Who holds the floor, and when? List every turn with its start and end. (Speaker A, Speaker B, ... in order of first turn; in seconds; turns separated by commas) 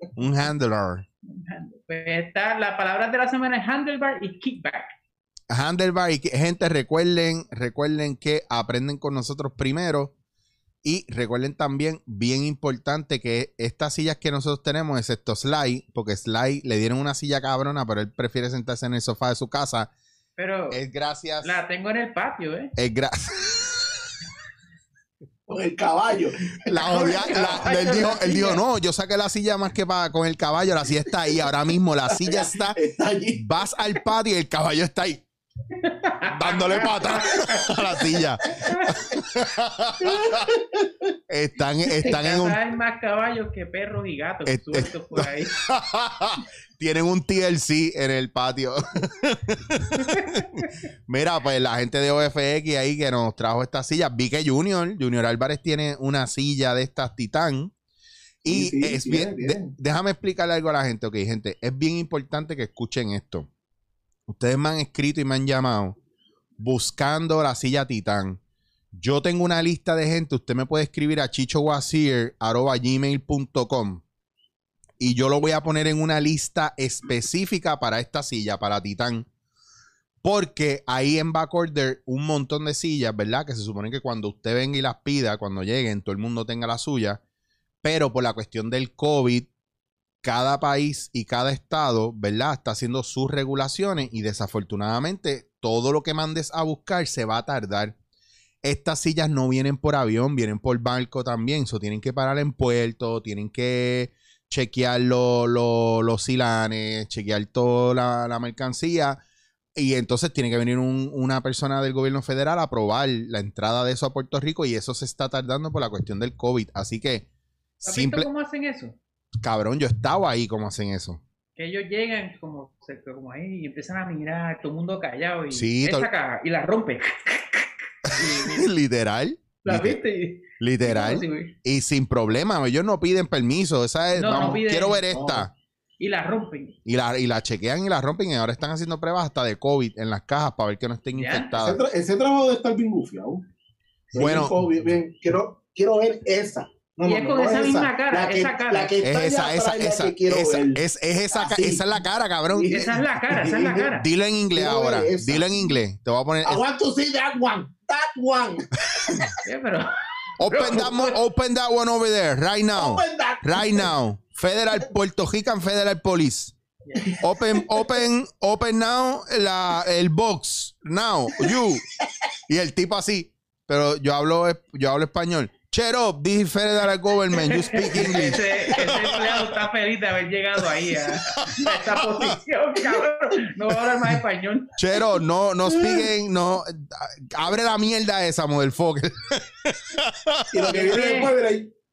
Speaker A: 0.1-1.0, Speaker B: 1.2-4.9, Speaker A: 5.5-10.1, Speaker A: 10.8-19.9, Speaker B: 20.4-20.8, Speaker A: 20.7-21.6, Speaker B: 21.4-22.7, Speaker A: 22.8-23.8, Speaker C: 25.5-27.7, Speaker A: 26.6-32.8, Speaker B: 26.9-28.6, Speaker C: 32.2-33.4, Speaker A: 33.4-35.2, Speaker B: 35.7-39.1, Speaker A: 36.2-40.5, Speaker C: 40.0-41.1, Speaker A: 41.3-42.6, Speaker B: 42.0-45.5, Speaker A: 44.5-57.7, Speaker B: 50.0-50.6, Speaker A: 58.4-63.5, Speaker C: 58.4-59.7, Speaker A: 64.3-66.0, Speaker A: 66.6-68.4, Speaker A: 68.9-74.0, Speaker A: 75.0-79.3, Speaker A: 80.2-87.2, Speaker A: 87.8-89.5, Speaker A: 90.2-98.0, Speaker A: 98.6-109.2, Speaker A: 109.7-117.3, Speaker A: 117.8-118.3, Speaker B: 117.8-119.0, Speaker A: 119.4-121.2, Speaker B: 121.5-128.7, Speaker A: 125.5-126.1, Speaker A: 128.1-130.0, Speaker B: 129.6-131.5, Speaker A: 130.6-135.5, Speaker B: 134.1-135.0, Speaker C: 135.1-135.5, Speaker B: 136.0-136.8, Speaker A: 136.8-141.8, Speaker B: 141.1-141.6, Speaker C: 141.6-143.4, Speaker C: 144.1-151.8, Speaker A: 144.1-144.6, Speaker B: 147.0-148.9, Speaker A: 149.0-152.9, Speaker C: 152.5-154.0, Speaker B: 152.7-154.1, Speaker A: 153.9-156.6, Speaker C: 154.5-155.6, Speaker C: 156.4-158.7, Speaker A: 158.9-159.3, Speaker B: 159.4-161.2, Speaker A: 160.4-166.5, Speaker C: 162.8-163.9, Speaker B: 166.8-167.1, Speaker C: 167.0-167.9, Speaker A: 167.2-171.8, Speaker A: 172.5-179.5, Speaker B: 177.3-184.7, Speaker A: 181.0-182.3, Speaker A: 184.8-190.5, Speaker C: 185.7-186.1, Speaker C: 190.5-191.7, Speaker B: 190.7-191.3